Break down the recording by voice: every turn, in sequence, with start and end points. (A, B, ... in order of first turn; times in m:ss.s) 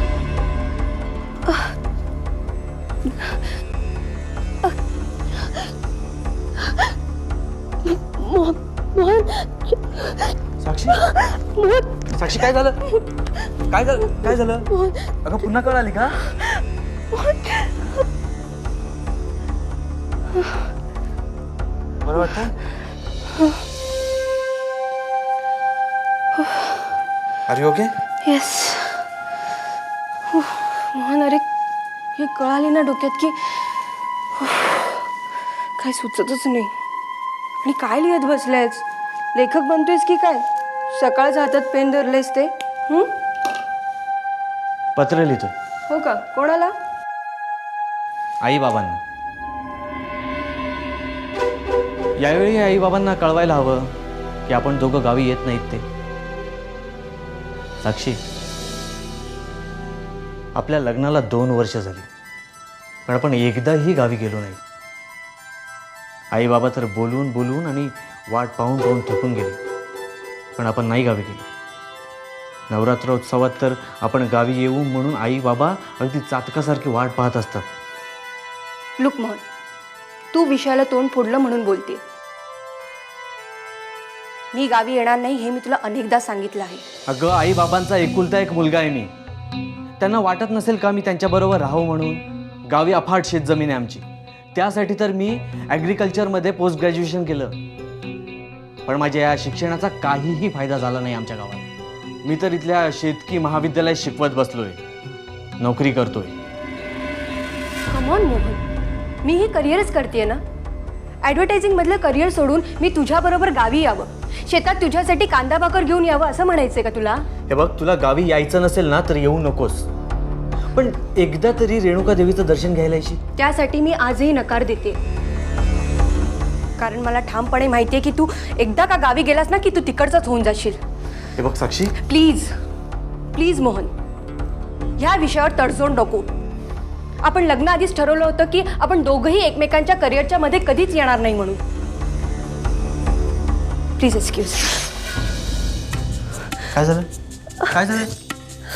0:07.9-0:10.1 A
0:10.6-0:11.0 B
0:11.0-0:12.0 A
0:12.1-0:12.8 B
0:13.7-0:14.7 B
0:14.2-0:15.1 A
0:15.2-0:16.2 B
0:17.1-0:17.7 A
0:22.0-0:22.5 B
0:27.5-0:27.9 B
0:28.2-0:29.0 A
0:30.3-0:31.4 A
0:32.2-0:33.6 A
0:34.4-0:35.0 A
0:35.8-0:36.7 A
0:37.6-0:38.8 A
0:39.3-0:43.1 A
0:45.0-0:45.5 B
0:45.9-0:46.7 A
0:48.4-0:49.0 B
0:52.2-0:53.9 B
0:54.5-0:55.8 B
0:57.8-0:58.2 B
1:00.6-1:02.1 B
1:03.1-1:04.6 B
1:06.3-1:09.6 B
1:10.6-1:11.4 B
1:12.7-1:17.6 B
1:19.0-1:19.4 A
1:20.3-1:22.0 A
1:24.5-1:26.8 A
1:27.1-1:29.1 B
1:30.0-1:34.0 B
1:34.5-1:37.5 B
1:38.9-1:41.7 B
1:42.2-1:44.8 B
1:45.6-1:46.3 B
1:47.9-1:48.6 A
1:49.2-1:50.4 A
1:51.2-1:57.3 A
1:57.5-1:59.9 B
2:00.7-2:03.2 B
2:03.4-2:05.0 A
2:06.8-2:10.8 A
2:11.4-2:11.9 B
2:12.0-2:12.5 A
2:13.3-2:13.9 A
2:15.0-2:16.3 A
2:17.2-2:21.6 A
2:24.0-2:24.7 A
2:26.7-2:27.1 B
2:27.7-2:28.1 B